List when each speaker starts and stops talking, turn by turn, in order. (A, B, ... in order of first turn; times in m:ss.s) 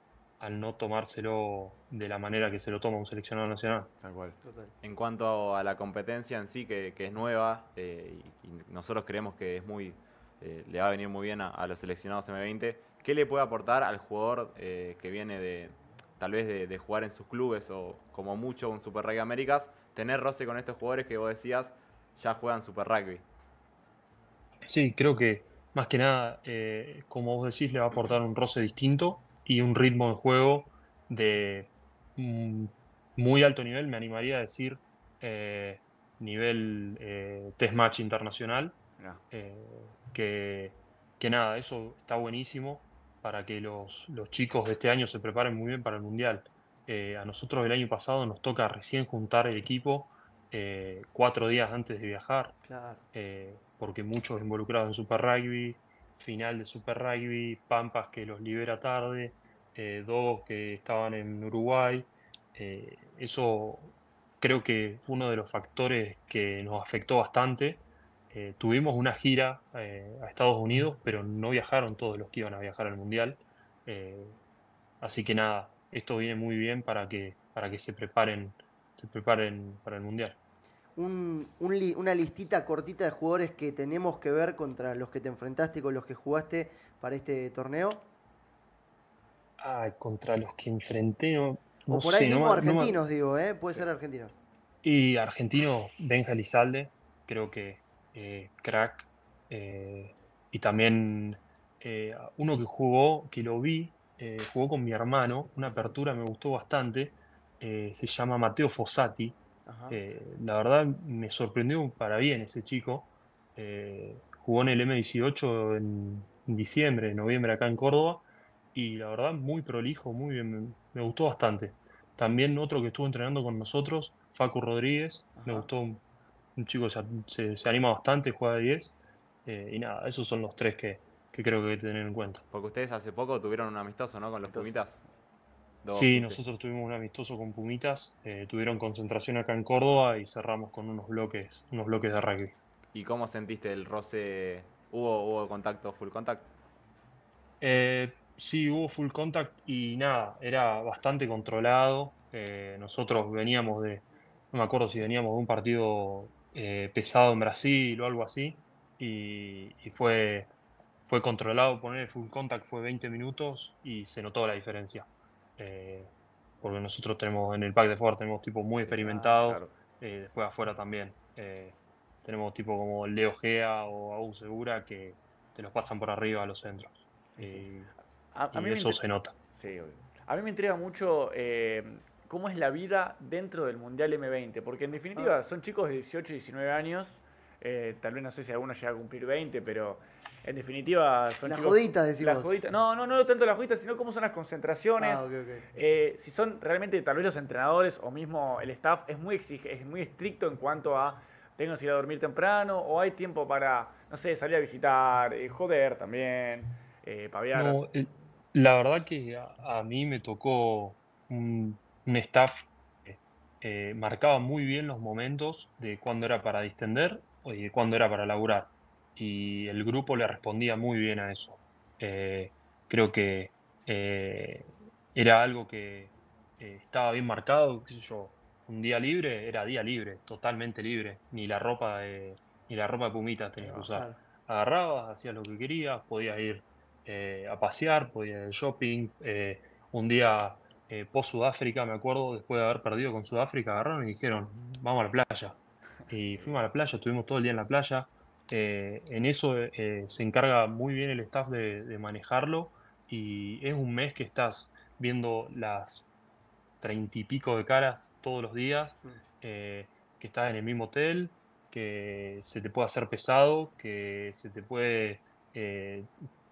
0:00.4-0:03.9 A
0:04.0-0:04.4 B
0:04.4-0:04.7 C
0:04.8-0:23.2 D
0:24.7-0:38.8 A
0:39.3-0:52.5 A
0:52.6-0:53.0 C
0:53.1-1:14.4 A
1:15.0-1:20.4 A
1:21.0-1:28.0 C
1:29.6-1:33.0 A
1:31.9-1:34.3 C
1:34.8-1:49.4 A
1:49.6-1:50.0 C
1:49.9-2:06.0 A
2:05.4-2:05.7 C
2:06.6-2:12.4 A
2:12.5-2:15.0 D
2:14.5-2:14.8 B
2:15.8-2:16.4 D
2:15.9-2:22.5 A
2:22.9-2:26.5 D
2:27.6-2:40.5 A
2:41.1-2:45.1 A
2:45.6-2:57.9 A
2:48.8-2:49.7 B
2:57.4-2:57.6 B
2:58.3-2:59.0 B
2:58.5-2:59.3 A
2:59.5-3:27.8 B
3:11.4-3:12.6 C
3:15.0-3:15.6 C
3:27.5-4:16.1 A
3:53.9-3:54.2 C
4:16.8-4:26.1 A